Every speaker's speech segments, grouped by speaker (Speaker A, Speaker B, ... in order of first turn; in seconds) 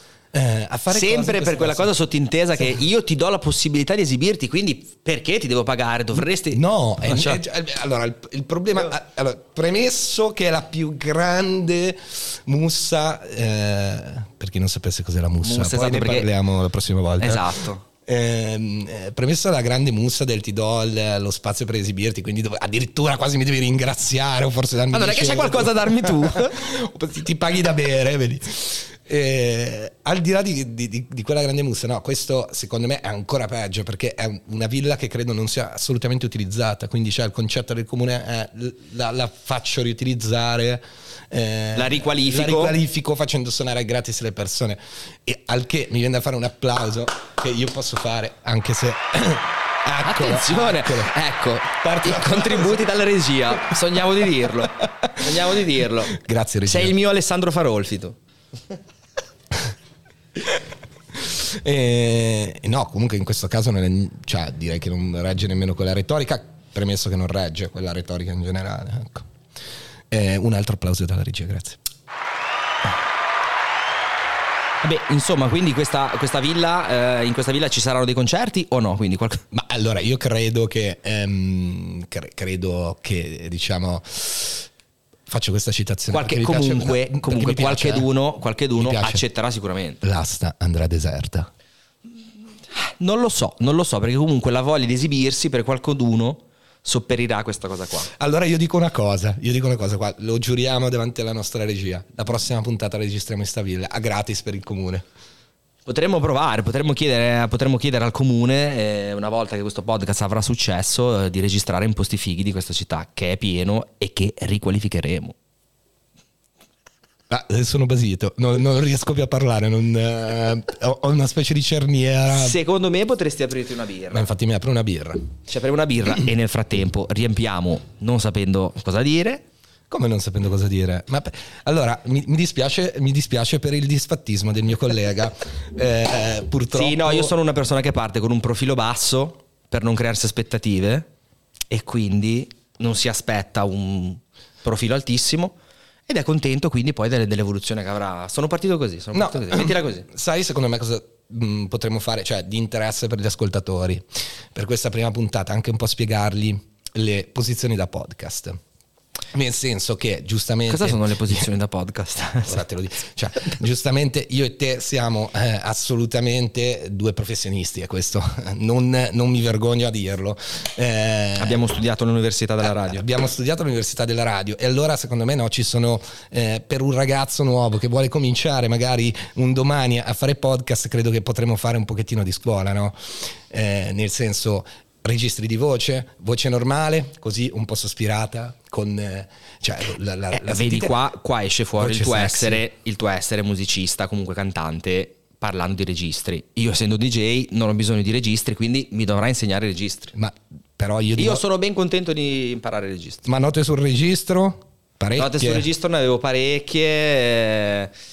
Speaker A: 0.3-1.9, 6.5-51.1, 51.7-52.8, 54.9-55.3, 56.1-56.9, 61.2-69.3, 70.1-71.8, 79.5-84.7, 85.3-88.1, 88.8-89.2, 90.0-91.5, 98.2-105.0, 117.3-122.6, 124.1-125.3, 129.9-137.3, 149.1-158.6, 159.3-161.5, 162.5-171.6, 172.6-191.0, 191.8-192.6, 200.2-201.4, 203.3-205.7
Speaker B: 0.9-7.4, 15.4-16.3, 17.2-17.8, 24.9-26.6, 41.8-42.8, 50.0-56.1, 56.6-58.2, 74.8-79.4, 86.1-90.0, 92.7-98.1, 105.9-115.3, 122.3-124.3, 125.5-129.4, 136.7-141.1, 141.7-145.6, 146.1-150.1, 160.7-162.6, 171.4-173.1, 190.3-200.1, 201.2-203.3, 205.2-207.9